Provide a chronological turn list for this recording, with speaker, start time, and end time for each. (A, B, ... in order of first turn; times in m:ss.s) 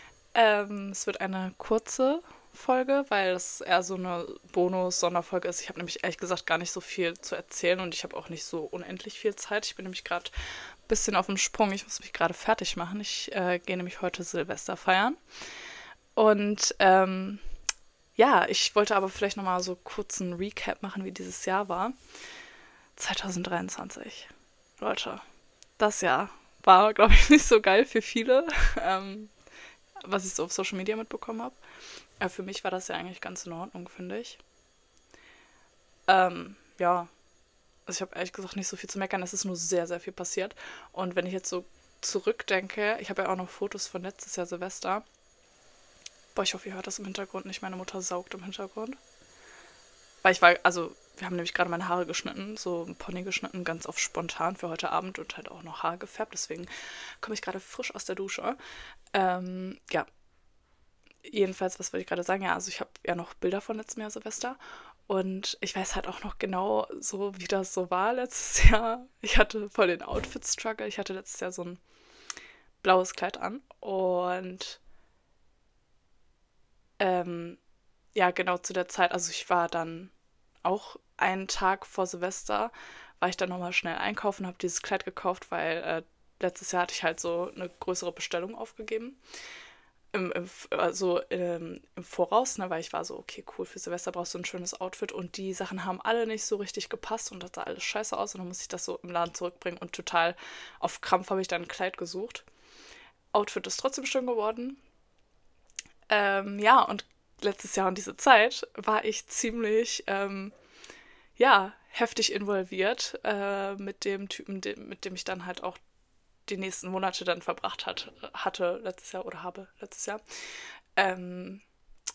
0:00.3-0:10.3 A
0:10.9-0:15.2 A
0:16.2-0:17.4 A
0:18.2-0:21.9 A
0:23.0-0:25.2 A
0:25.8-0:29.3 A
0:30.0-0:31.6 A
0:32.2-0:34.4 A
0:36.1-0:37.1 A
0:37.8-0:45.0 A
0:46.3-0:49.0 A
0:50.2-0:56.7 A
0:57.2-0:58.6 A
0:59.1-1:00.1 A
1:01.2-1:11.8 A
1:12.8-1:14.8 A
1:17.0-1:17.6 A
1:18.1-1:20.1 A
1:20.6-1:29.2 A
1:30.1-1:42.4 A
1:43.3-1:44.8 A
1:46.1-1:50.5 A
1:51.4-1:55.8 A
1:56.5-2:00.2 A
2:01.0-2:01.6 A